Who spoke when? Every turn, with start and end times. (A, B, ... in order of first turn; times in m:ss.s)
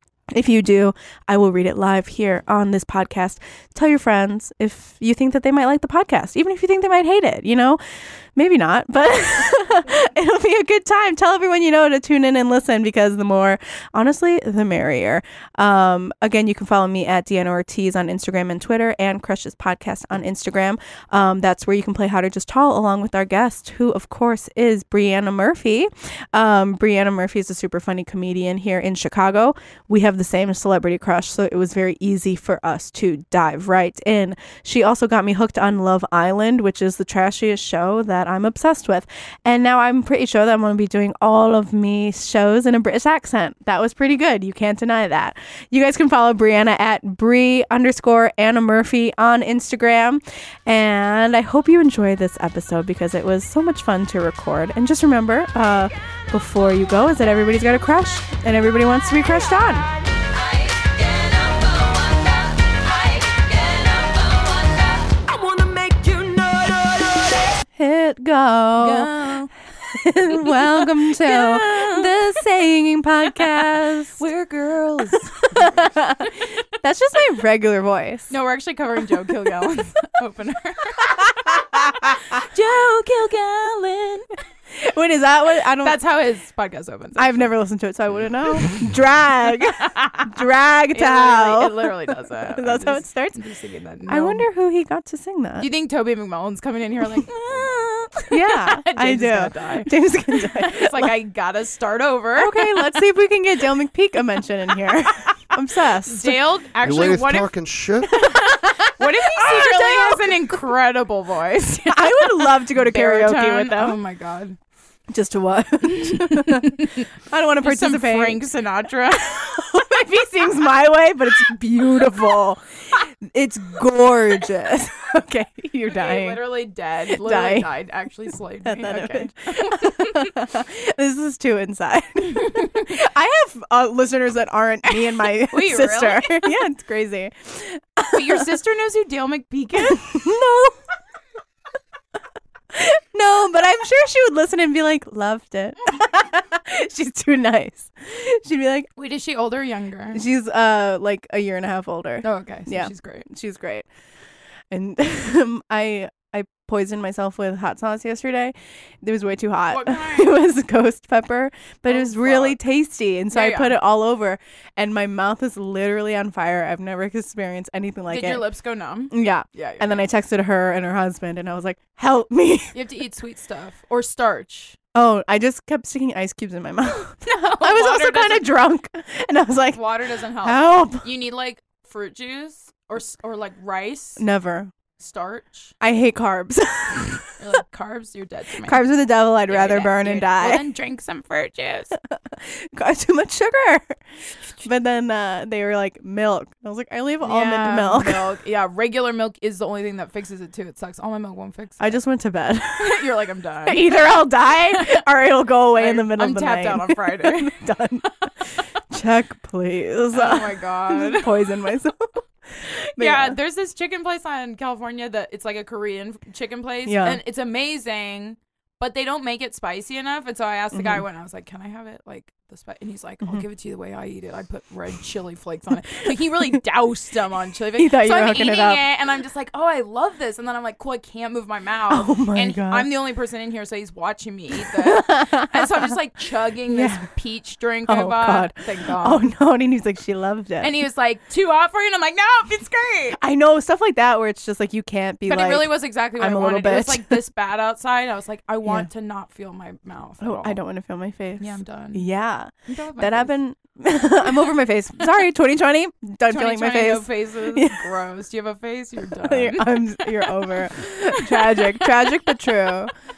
0:00.3-0:07.8 A
0:08.4-0:59.9 A
1:00.6-1:03.7 B
1:02.9-1:05.0 C
1:05.1-1:07.6 B
1:07.8-1:09.1 A
1:08.8-1:09.5 C
1:09.9-1:14.3 A
1:10.3-1:12.2 C
1:13.3-1:15.8 C
1:15.4-1:18.3 A
1:18.3-1:24.3 C
1:21.2-1:22.4 A
1:24.7-1:26.0 A
1:25.8-1:27.5 C
1:27.2-1:33.4 A
1:29.7-1:34.4 C
1:34.1-1:35.7 A
1:35.6-1:43.0 C
1:38.3-1:41.1 A
1:42.4-1:46.4 A
1:46.0-1:47.5 C
1:46.8-1:48.3 B
1:48.1-1:54.6 C
1:48.2-1:50.4 A
1:51.9-1:54.0 A
1:55.1-1:58.4 A
1:56.0-1:57.0 C
1:57.6-1:59.6 C
1:59.3-2:06.4 A
2:05.9-2:10.3 C
2:07.1-2:07.7 A
2:08.6-2:18.5 A
2:12.3-2:12.9 C
2:14.9-2:16.6 C
2:18.1-2:20.0 C
2:19.9-2:20.8 A
2:22.7-2:28.9 A
2:29.0-2:30.2 C
2:30.1-2:33.9 A
2:32.2-2:33.3 C
2:34.7-2:48.4 A
2:39.7-2:40.3 C
2:41.9-2:42.6 C
2:43.3-2:43.8 C
2:48.1-2:50.1 C
2:49.1-2:52.8 A
2:52.7-2:54.8 C
2:54.9-2:59.8 A
2:57.2-2:58.5 C
2:59.7-3:04.2 C
3:00.4-3:01.0 A
3:04.2-3:04.7 A
3:05.0-3:05.7 C
3:05.8-3:07.3 A
3:07.4-3:08.8 C
3:08.6-3:10.6 A
3:09.5-3:11.9 C
3:12.1-3:14.0 A
3:14.6-3:18.2 A
3:17.2-3:22.0 C
3:21.8-3:23.0 A
3:22.8-3:23.9 C
3:23.6-3:28.1 A
3:24.7-3:25.0 C
3:25.8-3:27.5 C
3:28.9-3:32.2 A
3:30.1-3:31.7 C
3:33.0-3:33.3 A
3:33.0-3:59.2 C
3:36.8-3:37.2 A
3:40.7-3:41.0 A
3:47.8-3:48.8 A
3:51.9-3:52.9 A
3:54.6-3:56.0 A
3:56.7-3:57.1 A
3:57.9-4:00.8 A
4:00.6-4:03.2 C
4:03.2-4:07.2 A
4:05.3-4:10.6 C
4:10.2-4:17.8 A
4:11.4-4:12.1 C
4:12.7-4:13.3 C
4:16.3-4:22.8 C
4:19.2-4:22.9 A